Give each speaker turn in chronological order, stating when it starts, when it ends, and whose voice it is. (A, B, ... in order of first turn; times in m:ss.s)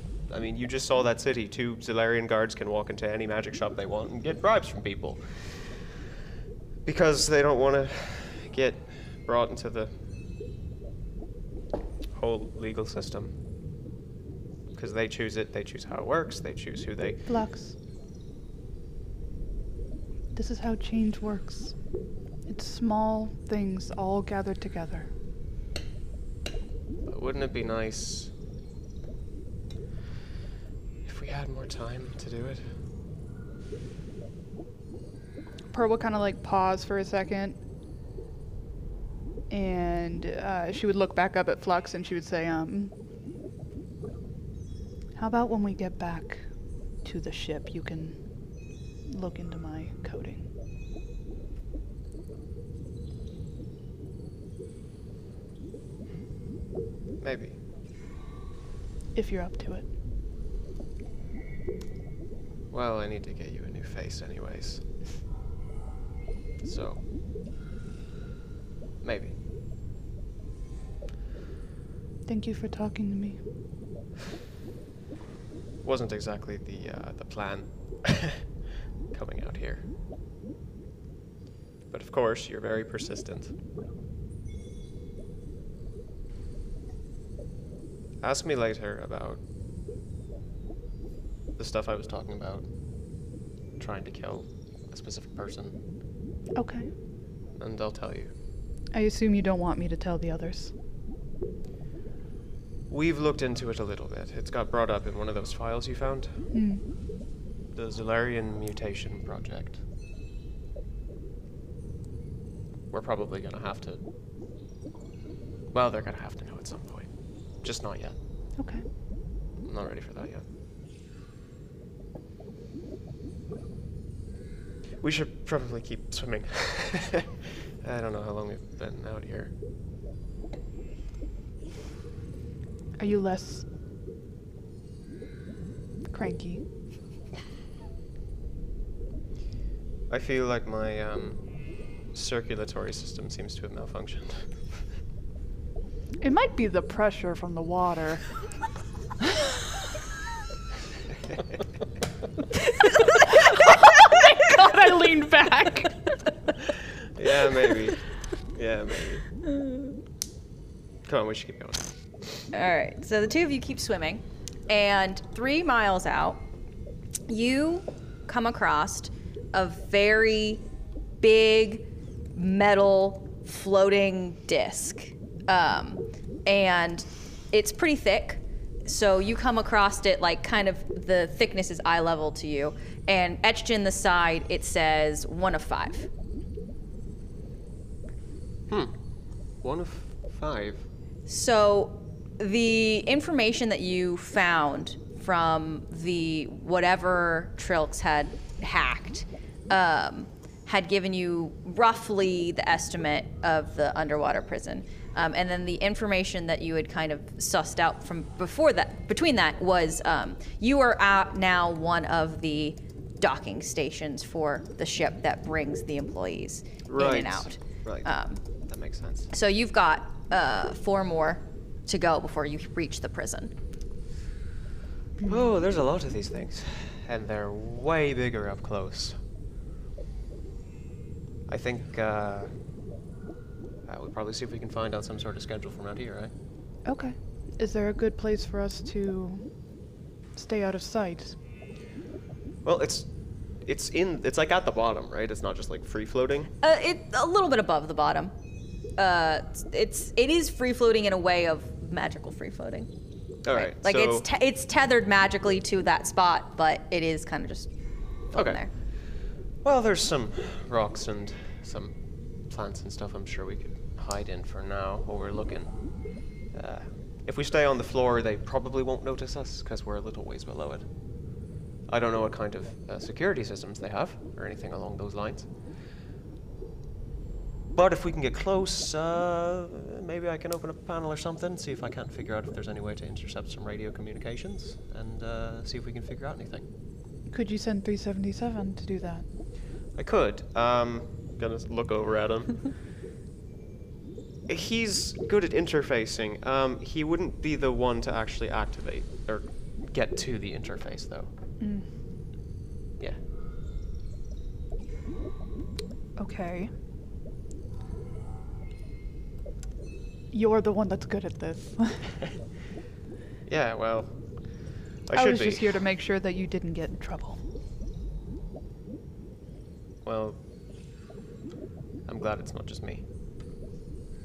0:00.3-0:05.6 A
0:06.8-0:09.9 A
0:12.2-0:13.3 A
0:14.7-0:17.2 A
0:17.3-0:17.7 B
0:20.3-0:21.7 B
0:22.5-0:25.1 B
0:27.1-0:28.3 A
0:31.0-0:32.6 A
0:35.7-0:37.6 B
0:39.5-0:42.9 B
0:45.2-0:46.4 B
0:47.0-0:48.2 B
0:49.1-0:50.4 B
0:57.2-0:57.5 A
0:59.1-0:59.8 B
1:02.7-1:04.8 A
1:06.6-1:07.0 A
1:09.0-1:09.3 A
1:12.3-1:13.4 B
1:15.8-1:18.4 A
1:19.1-1:19.8 A
1:21.9-1:23.5 A
1:28.2-1:29.4 A
1:31.6-1:32.6 A
1:33.8-1:35.8 A
1:36.5-1:36.9 B
1:37.6-1:38.3 A
1:38.9-1:40.7 B
1:42.9-1:46.3 A
1:46.5-1:46.8 B
1:47.7-1:49.8 A
1:52.9-1:54.0 A
1:55.7-1:57.1 A
1:57.6-1:58.2 A
1:58.6-1:58.8 B
1:59.6-2:00.4 A
2:05.0-2:09.5 A
2:13.0-2:13.6 B
2:16.1-2:16.6 B
2:20.1-2:21.4 A
2:22.1-2:24.5 A
2:26.2-2:28.2 B
2:33.3-2:36.0 B
2:37.1-2:38.0 A
2:38.5-2:39.2 A
2:41.0-2:41.9 A
2:42.5-2:46.4 C
2:47.3-2:50.6 C
2:51.2-3:06.1 C
3:08.7-3:08.9 A
3:09.6-3:10.8 A
3:11.3-3:38.4 C
3:36.9-3:38.1 A
3:38.6-3:39.3 A
3:39.3-3:43.5 C
3:45.2-3:49.2 A
3:51.5-3:52.5 A
3:53.9-3:56.3 A
3:56.8-3:59.5 B
4:00.4-4:01.3 B
4:02.6-4:03.1 A
4:03.6-4:06.5 A
4:06.6-4:08.3 C
4:09.0-4:12.9 C
4:13.4-4:14.2 A
4:13.5-4:17.7 C
4:18.3-4:18.7 C
4:18.3-4:18.6 A
4:19.6-4:21.9 A
4:22.5-4:25.7 A
4:26.5-4:30.9 A
4:31.9-4:35.5 A
4:37.7-4:46.7 A
4:47.3-4:49.2 B
4:50.0-4:52.6 A
4:54.5-5:01.3 A
5:01.6-5:01.8 B
5:06.2-5:06.7 B
5:10.3-5:12.0 B
5:13.5-5:14.1 A
5:15.1-5:15.7 A
5:15.1-5:17.4 B
5:20.0-5:20.4 A
5:22.1-5:23.0 A